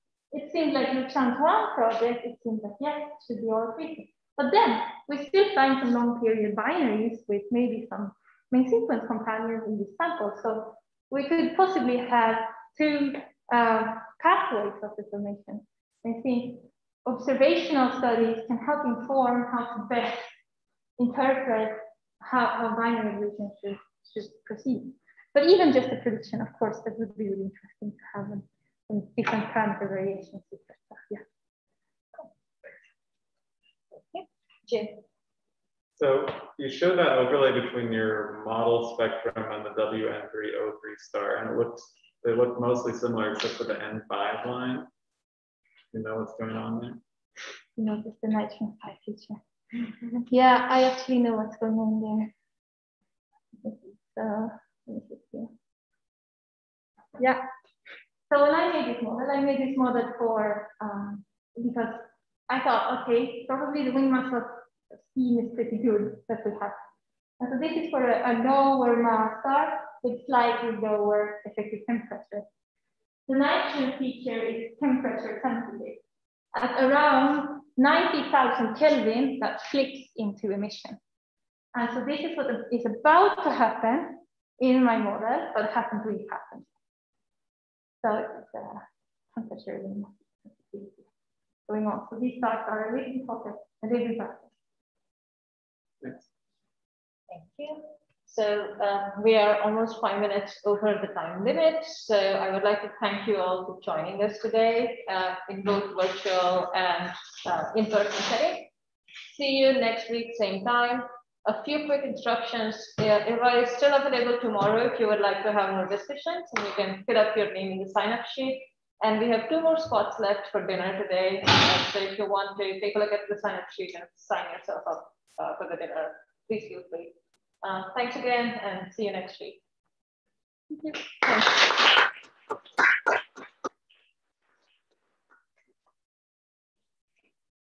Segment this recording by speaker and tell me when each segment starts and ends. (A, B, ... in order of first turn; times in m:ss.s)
0:00.3-0:20.3 A
0:21.0-0:31.2 A
0:33.9-0:35.0 B
0:36.0-0:44.9 C
0:45.9-0:47.0 C
0:47.8-0:49.4 A
0:50.3-0:52.3 A
0:53.6-0:55.5 A
0:58.3-1:06.8 A
1:07.4-1:12.4 A
1:13.3-1:16.0 A
1:16.5-1:21.0 A
1:21.7-1:26.7 A
1:28.0-1:31.1 A
1:31.7-1:34.5 A
1:37.3-1:48.7 B
1:49.3-2:09.6 B
2:10.7-2:11.0 A
2:11.2-2:11.6 B